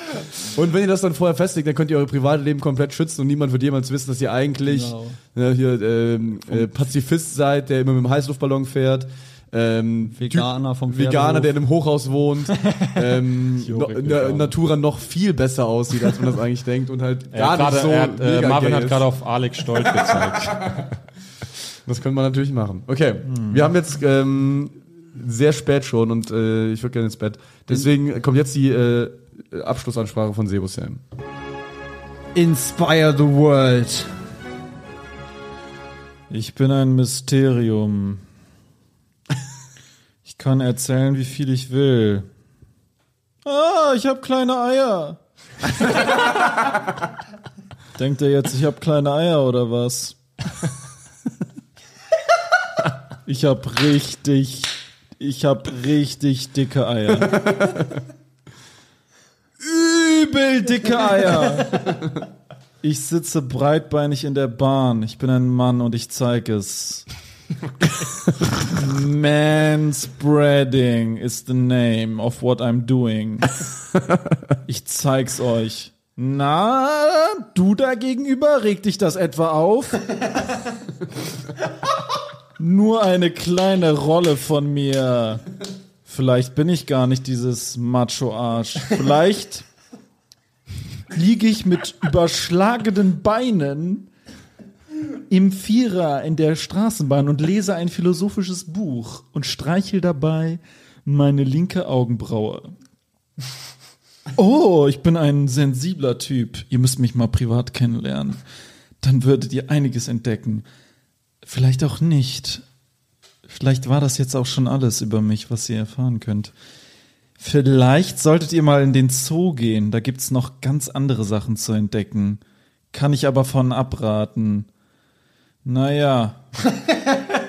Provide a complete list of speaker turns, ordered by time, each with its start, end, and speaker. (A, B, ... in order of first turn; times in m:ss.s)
0:00.5-0:19.0 A
0:04.7-0:05.2 B
0:10.1-0:11.5 B
0:12.5-0:13.0 B
0:13.6-0:14.6 C
0:17.3-0:21.0 C
0:19.8-0:20.7 A
0:21.8-0:31.0 A
0:23.3-0:23.6 D
0:32.4-0:34.1 B
0:36.3-0:38.2 D
0:40.3-0:42.3 D
0:43.4-0:46.3 D
0:48.0-0:50.2 D
0:53.3-0:57.5 D
0:59.6-1:02.0 D
1:02.8-1:07.1 D
1:08.7-1:13.5 D
1:14.6-1:20.2 D
1:22.6-1:25.4 D
1:26.0-1:29.6 D
1:31.1-1:34.1 D
1:35.1-1:42.7 D
1:44.4-1:48.4 D
1:49.0-1:50.6 D
1:51.4-1:52.6 D
1:53.5-1:56.5 D
1:57.4-2:02.4 D
2:02.9-2:04.7 D
2:05.6-2:06.4 D